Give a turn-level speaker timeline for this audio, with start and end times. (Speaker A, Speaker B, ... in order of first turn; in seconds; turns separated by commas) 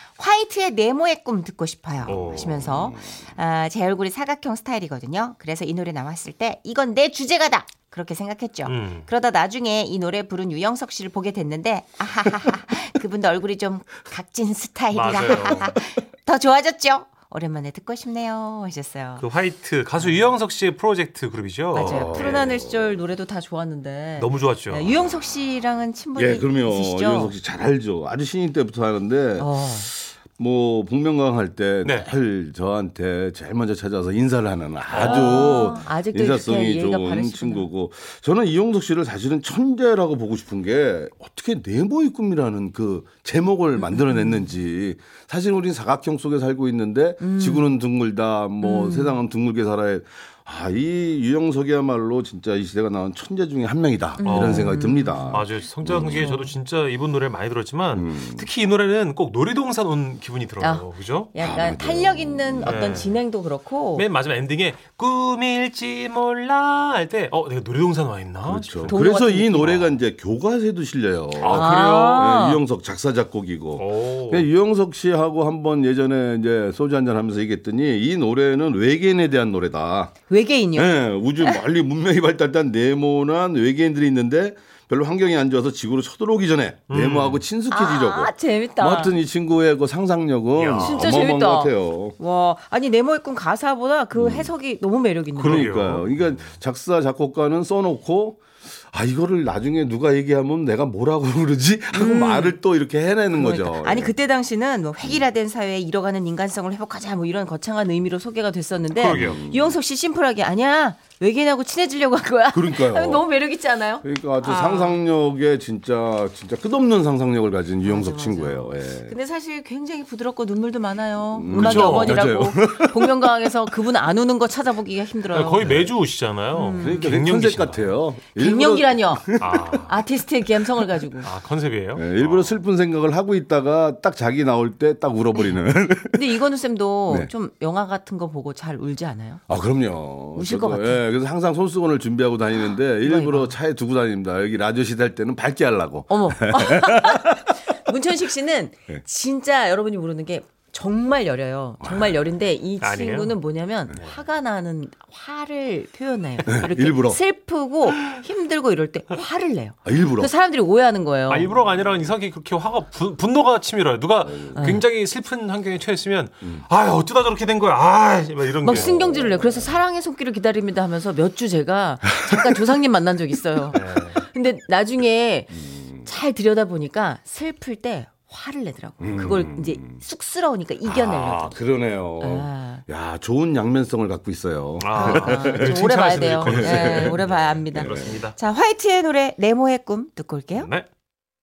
Speaker A: 0.2-19.2, Speaker B: 2.1-2.7, Speaker C: 2.1-3.1, Speaker B: 8.7-9.1, Speaker B: 14.9-15.7, Speaker B: 19.2-22.4, Speaker A: 21.7-27.3, Speaker C: 21.8-22.9, Speaker B: 24.2-24.9, Speaker C: 26.2-56.4, Speaker A: 29.4-29.9, Speaker B: 34.9-35.6, Speaker A: 35.0-37.7, Speaker A: 44.0-44.4, Speaker A: 47.2-47.7, Speaker A: 48.6-49.2, Speaker A: 54.2-55.3, Speaker B: 54.2-61.3, Speaker A: 56.1-56.5, Speaker C: 57.9-58.5, Speaker A: 60.6-64.0, Speaker C: 61.4-63.0, Speaker B: 62.6-63.2, Speaker B: 64.0-69.0, Speaker C: 68.5-80.1, Speaker A: 68.9-69.8, Speaker B: 69.6-69.9, Speaker B: 71.4-72.3, Speaker A: 71.5-72.6, Speaker B: 73.8-74.5, Speaker A: 80.3-81.6, Speaker C: 80.8-92.2, Speaker B: 86.9-87.4, Speaker A: 87.7-89.2, Speaker B: 90.6-91.0, Speaker A: 90.8-95.8, Speaker C: 94.2-94.5, Speaker B: 95.4-96.5, Speaker C: 95.4-104.1, Speaker A: 101.9-102.6, Speaker A: 103.3-115.0, Speaker B: 109.0-109.4, Speaker C: 109.1-109.8, Speaker C: 112.5-113.2, Speaker C: 114.0-119.1, Speaker A: 117.8-125.9, Speaker C: 121.3-123.5, Speaker B: 121.5-122.2, Speaker B: 125.3-128.0, Speaker A: 126.5-127.1, Speaker C: 126.8-129.9, Speaker A: 128.4-129.3, Speaker B: 129.4-130.0, Speaker A: 129.9-131.3, Speaker B: 131.2-132.6, Speaker C: 131.9-136.4, Speaker A: 136.1-139.4, Speaker C: 139.5-147.6, Speaker A: 140.3-141.0, Speaker A: 143.0-143.5, Speaker A: 146.1-161.5, Speaker C: 151.8-152.2, Speaker B: 152.8-153.4, Speaker C: 156.5-157.2, Speaker C: 159.8-160.3, Speaker B: 161.3-168.9, Speaker C: 164.3-164.6, Speaker A: 164.6-164.8, Speaker A: 168.6-181.6, Speaker C: 168.7-169.7, Speaker B: 173.7-174.2, Speaker C: 175.5-176.1, Speaker C: 179.0-180.0, Speaker C: 180.8-187.2, Speaker A: 182.2-182.8, Speaker B: 184.8-188.4, Speaker A: 184.9-190.7, Speaker C: 187.7-188.2, Speaker B: 190.6-190.9